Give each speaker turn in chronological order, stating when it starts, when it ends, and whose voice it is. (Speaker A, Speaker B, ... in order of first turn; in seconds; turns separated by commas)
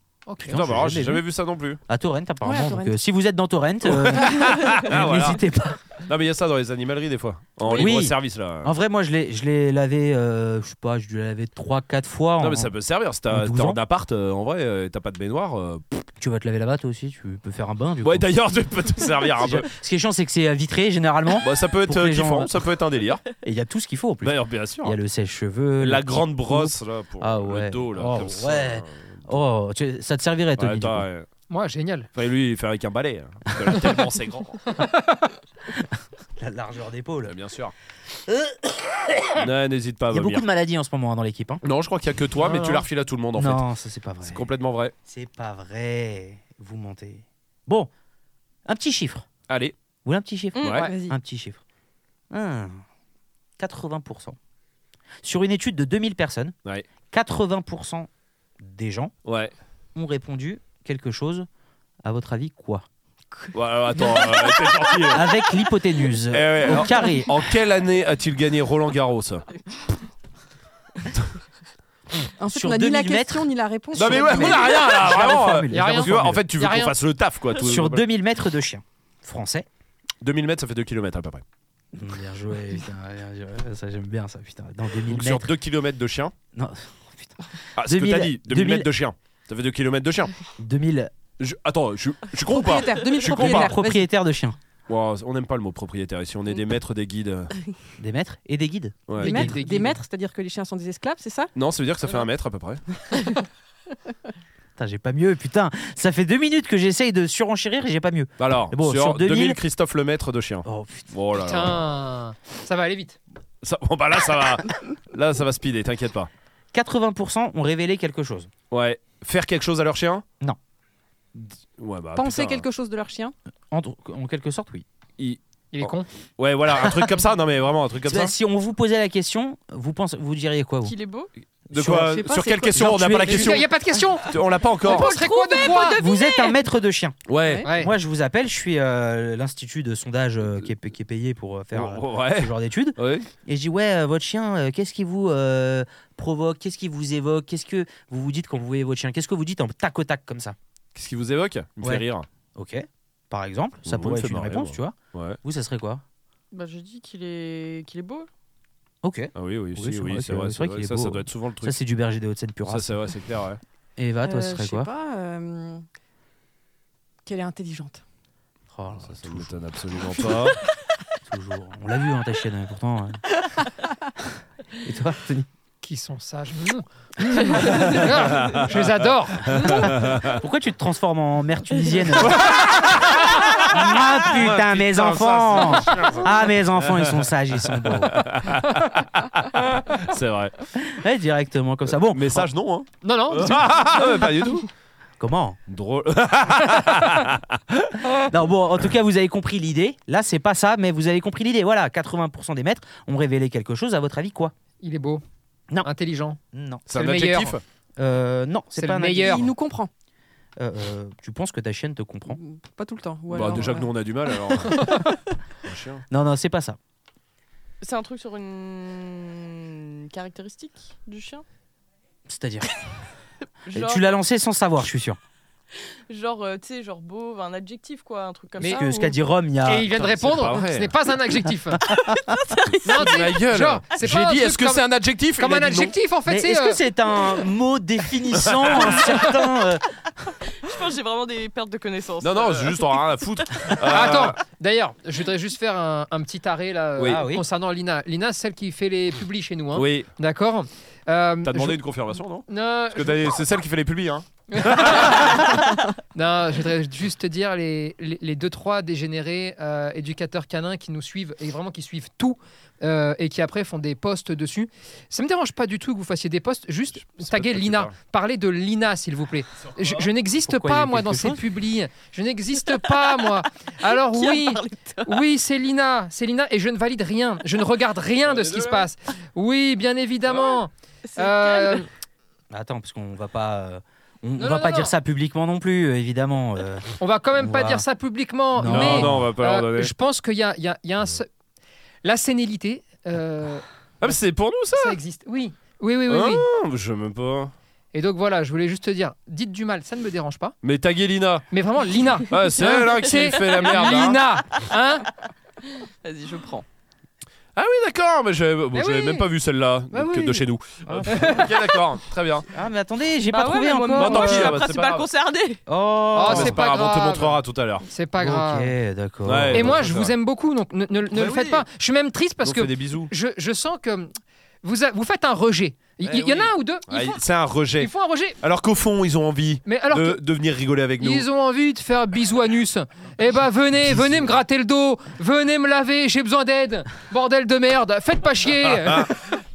Speaker A: 0.3-0.6, Speaker B: 0.4-1.2, Speaker C: 0.5-1.8, Speaker B: 1.9-5.8, Speaker D: 2.4-3.0, Speaker C: 3.8-5.4, Speaker C: 6.0-8.7, Speaker B: 7.7-12.7, Speaker C: 12.4-16.1, Speaker B: 13.3-13.8, Speaker B: 16.2-18.3, Speaker C: 18.0-19.7, Speaker B: 19.3-22.6, Speaker C: 21.4-23.2, Speaker B: 23.4-31.1, Speaker C: 24.2-24.9, Speaker C: 25.8-29.1, Speaker C: 30.6-31.3, Speaker A: 31.5-32.1, Speaker C: 32.1-34.8, Speaker B: 36.4-37.3, Speaker C: 37.2-37.7, Speaker B: 38.2-39.5, Speaker C: 39.4-40.4, Speaker B: 40.1-41.6, Speaker C: 41.6-43.6, Speaker A: 42.4-42.8, Speaker B: 43.3-44.4, Speaker C: 44.2-44.9, Speaker B: 45.0-47.9, Speaker B: 48.6-49.3, Speaker C: 49.5-49.7, Speaker B: 50.0-51.6, Speaker E: 50.5-50.9, Speaker C: 50.6-50.9, Speaker D: 50.8-51.1, Speaker B: 52.3-52.8, Speaker B: 53.6-54.4, Speaker B: 55.2-56.5, Speaker B: 57.1-58.1, Speaker B: 58.6-59.1, Speaker C: 59.2-59.5, Speaker B: 59.9-61.5, Speaker B: 62.0-62.8, Speaker C: 63.5-65.3, Speaker B: 65.1-67.3, Speaker C: 66.3-69.5, Speaker D: 72.4-74.9, Speaker B: 72.5-76.4, Speaker C: 73.9-78.0, Speaker A: 75.7-76.9, Speaker B: 77.6-79.7, Speaker C: 80.2-81.4, Speaker B: 81.9-85.5, Speaker C: 85.1-86.3, Speaker B: 86.5-88.9, Speaker C: 87.8-90.3, Speaker B: 90.6-91.1, Speaker C: 91.4-93.7, Speaker D: 92.4-94.0, Speaker B: 93.2-94.6, Speaker C: 94.9-97.5, Speaker B: 98.0-99.6, Speaker C: 99.1-99.5, Speaker D: 99.2-101.5, Speaker A: 99.2-100.0, Speaker C: 101.5-102.8, Speaker B: 104.8-109.6, Speaker C: 108.4-111.8, Speaker B: 110.6-111.1, Speaker A: 111.3-113.2, Speaker C: 113.6-116.3, Speaker B: 116.7-118.5, Speaker C: 118.7-120.2, Speaker C: 121.3-122.6, Speaker D: 122.1-123.3, Speaker B: 123.7-124.8, Speaker C: 125.2-128.3, Speaker A: 125.7-126.1, Speaker B: 128.1-130.9, Speaker E: 130.8-131.3, Speaker B: 131.7-133.6, Speaker C: 131.7-133.7, Speaker D: 131.9-132.8, Speaker A: 133.3-134.3, Speaker C: 134.2-135.1, Speaker A: 134.8-136.0, Speaker D: 134.8-136.0, Speaker E: 134.9-136.6, Speaker B: 136.0-150.6, Speaker C: 137.3-137.7, Speaker A: 137.6-137.9, Speaker C: 141.7-143.3, Speaker C: 150.9-152.3, Speaker B: 151.8-156.0, Speaker C: 153.9-155.4, Speaker E: 156.5-158.3, Speaker B: 159.0-163.1, Speaker C: 159.3-161.7, Speaker C: 162.7-163.6, Speaker B: 164.0-164.9, Speaker D: 164.2-165.8, Speaker D: 167.2-168.0, Speaker B: 168.7-169.6, Speaker C: 169.1-170.6, Speaker B: 171.2-173.2, Speaker B: 174.8-175.5, Speaker A: 175.8-179.5, Speaker C: 177.7-178.8, Speaker C: 179.4-180.4, Speaker B: 179.6-182.6, Speaker C: 182.2-190.5, Speaker B: 183.6-188.3, Speaker B: 190.8-192.5, Speaker C: 192.0-194.7, Speaker A: 193.0-193.7, Speaker B: 195.2-195.6, Speaker C: 195.7-198.2, Speaker B: 198.1-204.5, Speaker A: 204.8-205.2, Speaker A: 205.8-206.4, Speaker B: 206.5-206.8, Speaker C: 206.9-207.6, Speaker A: 206.9-207.6, Speaker B: 208.0-209.5, Speaker A: 208.7-209.5, Speaker D: 209.2-209.9, Speaker B: 210.6-212.4, Speaker D: 212.3-213.9, Speaker C: 213.3-215.1, Speaker C: 215.6-216.0, Speaker B: 216.1-216.8, Speaker E: 217.8-221.4, Speaker B: 222.3-222.7, Speaker E: 223.7-224.1, Speaker B: 223.7-225.2, Speaker E: 226.1-229.2, Speaker A: 228.6-228.8, Speaker B: 228.7-229.9, Speaker A: 229.7-231.8, Speaker C: 229.9-230.9, Speaker B: 232.0-232.3, Speaker E: 232.2-233.0, Speaker A: 232.8-234.8, Speaker C: 232.9-235.9, Speaker A: 235.4-236.8, Speaker B: 236.3-240.3, Speaker C: 238.4-239.0, Speaker E: 240.5-243.8, Speaker C: 242.2-244.4, Speaker A: 243.8-251.8, Speaker C: 247.0-247.2, Speaker B: 247.0-247.4, Speaker C: 249.7-250.1, Speaker C: 251.4-255.5, Speaker A: 252.5-253.3, Speaker A: 254.5-255.6, Speaker A: 256.1-281.9, Speaker C: 267.2-267.9, Speaker C: 269.6-270.1, Speaker B: 270.4-271.4, Speaker E: 274.1-275.2, Speaker C: 278.2-278.9, Speaker E: 281.0-281.8, Speaker B: 282.5-287.8, Speaker A: 284.4-284.9, Speaker A: 287.0-291.3, Speaker B: 288.5-289.3, Speaker C: 288.6-289.9, Speaker A: 292.0-294.1, Speaker C: 294.0-295.0, Speaker A: 294.7-296.4, Speaker C: 296.1-297.5, Speaker A: 297.9-300.5, Speaker C: 300.6-301.4, Speaker A: 301.5-305.1, Speaker C: 302.3-304.2, Speaker E: 302.6-304.3, Speaker E: 305.8-306.6, Speaker C: 307.6-312.5, Speaker A: 308.7-309.3, Speaker A: 310.0-310.4, Speaker B: 310.9-311.4, Speaker A: 311.1-311.5, Speaker B: 312.5-314.5, Speaker E: 313.3-315.6, Speaker C: 313.9-315.1, Speaker B: 315.7-316.6, Speaker A: 316.1-318.7, Speaker C: 316.3-317.9, Speaker B: 318.2-319.8, Speaker C: 319.2-320.1, Speaker A: 319.5-327.2, Speaker C: 321.1-321.6, Speaker C: 322.4-323.1, Speaker C: 326.0-331.2, Speaker A: 327.8-328.4, Speaker A: 329.6-330.2, Speaker A: 331.0-339.3, Speaker C: 338.6-339.1